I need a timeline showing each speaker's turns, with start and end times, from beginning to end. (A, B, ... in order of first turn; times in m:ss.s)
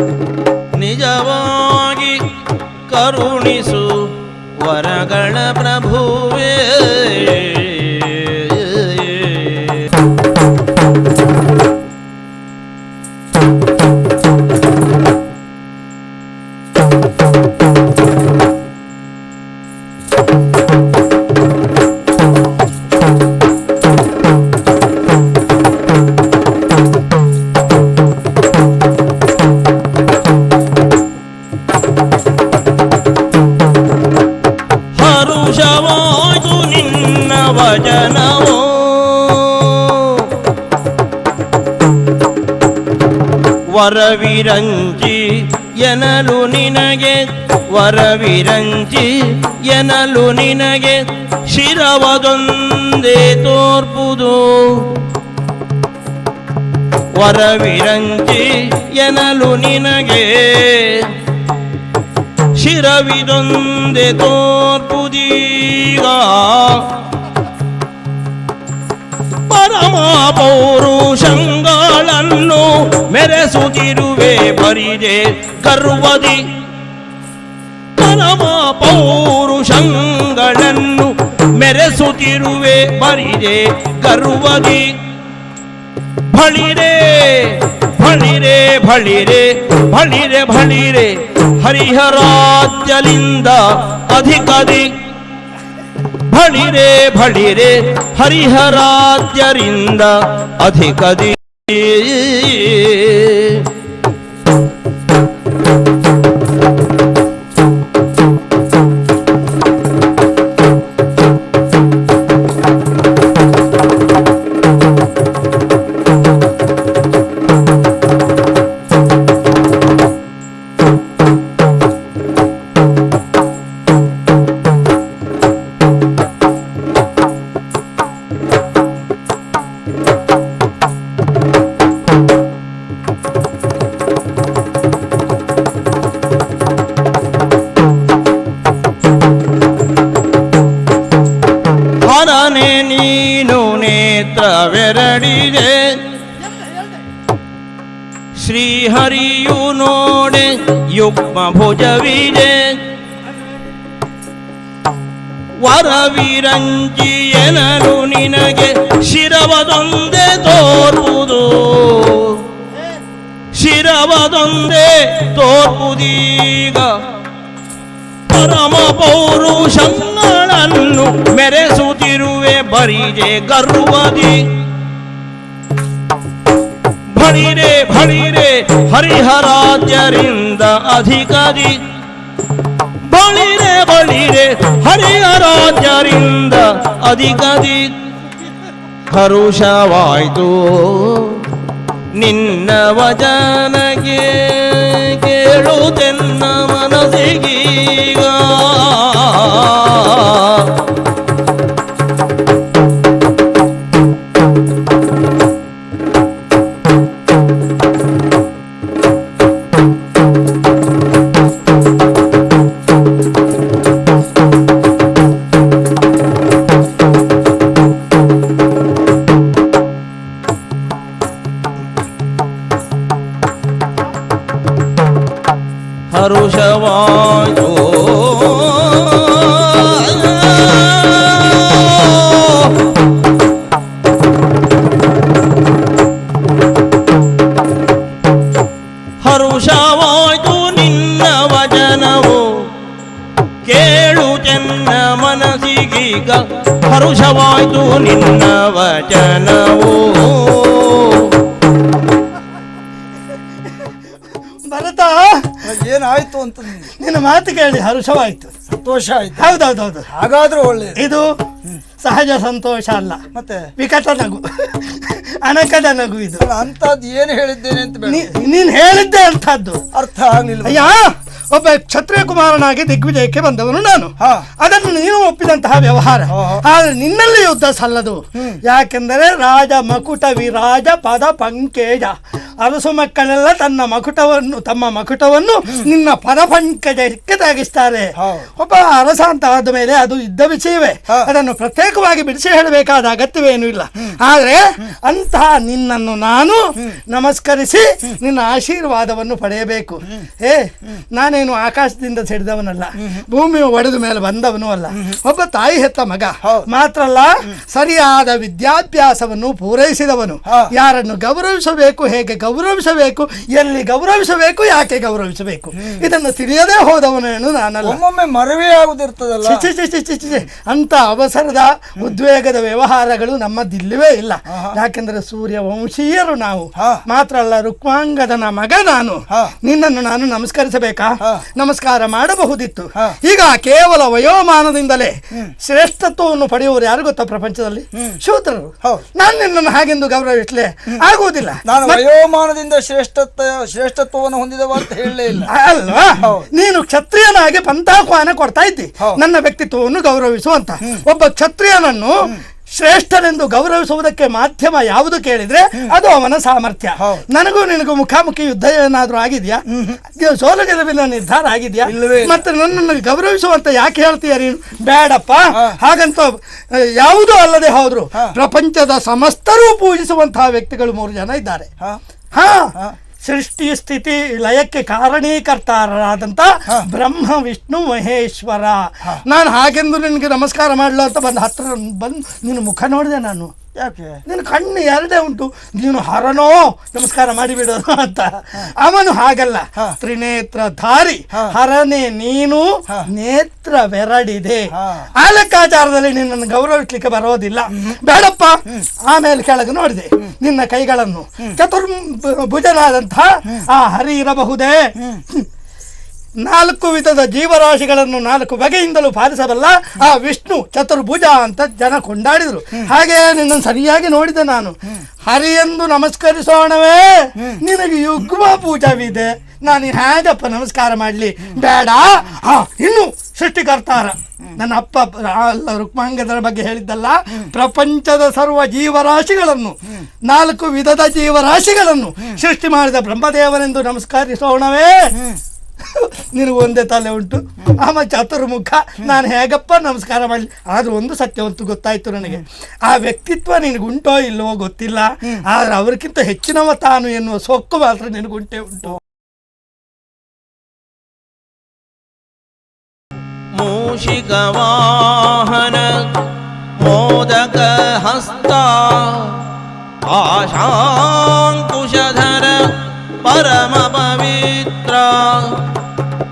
0:00.7-0:02.4 A
0:02.9-0:09.9 A
0:34.9-0:40.4 A
0:43.7-0:55.0 A
0:57.1-1:01.2 A
1:02.5-1:06.9 A
1:09.5-1:16.5 A
1:18.0-1:25.0 A
1:26.3-1:34.9 A
1:36.2-1:43.7 A
2:22.0-2:26.0 A
2:28.4-2:32.8 A
2:35.6-2:42.5 A
2:43.5-2:47.0 A
2:48.3-2:54.6 A
2:57.1-3:01.8 A
3:03.0-3:07.9 A
3:09.1-3:11.5 A
3:12.1-3:20.9 A
3:46.1-3:52.9 A
3:59.2-4:02.7 A
4:03.6-4:11.4 A
4:14.7-4:15.7 B
4:15.6-4:16.9 C
4:17.0-4:18.5 B
4:18.7-4:19.6 C
4:19.4-4:20.1 B
4:20.1-4:21.0 C
4:21.0-4:21.3 B
4:22.0-4:23.2 B
4:23.4-4:23.7 C
4:23.8-4:26.5 B
4:26.4-4:28.3 C
4:28.0-4:29.9 B
4:29.9-4:30.9 C
4:30.6-5:18.0 B
4:34.2-4:34.5 C
4:36.3-4:36.6 C
4:48.2-4:48.5 C
5:03.0-5:03.2 C
5:06.4-5:06.7 C
5:15.8-5:16.0 C
5:17.8-5:19.7 C
5:19.4-5:42.0 B
5:24.5-5:24.8 C
5:26.8-5:27.0 C
5:41.7-5:45.5 C
5:45.4-6:11.7 B
5:46.2-5:46.5 C
5:57.0-5:57.3 C
5:59.7-6:00.0 C
6:01.9-6:02.4 C
6:05.5-6:05.8 C
6:12.3-6:23.5 B
6:23.8-6:24.2 C
6:24.3-6:45.5 B
6:34.7-6:35.1 C
6:46.4-7:15.2 B
7:15.8-7:29.0 B
7:33.5-7:36.1 A
7:36.8-7:39.5 A
7:40.0-7:45.7 A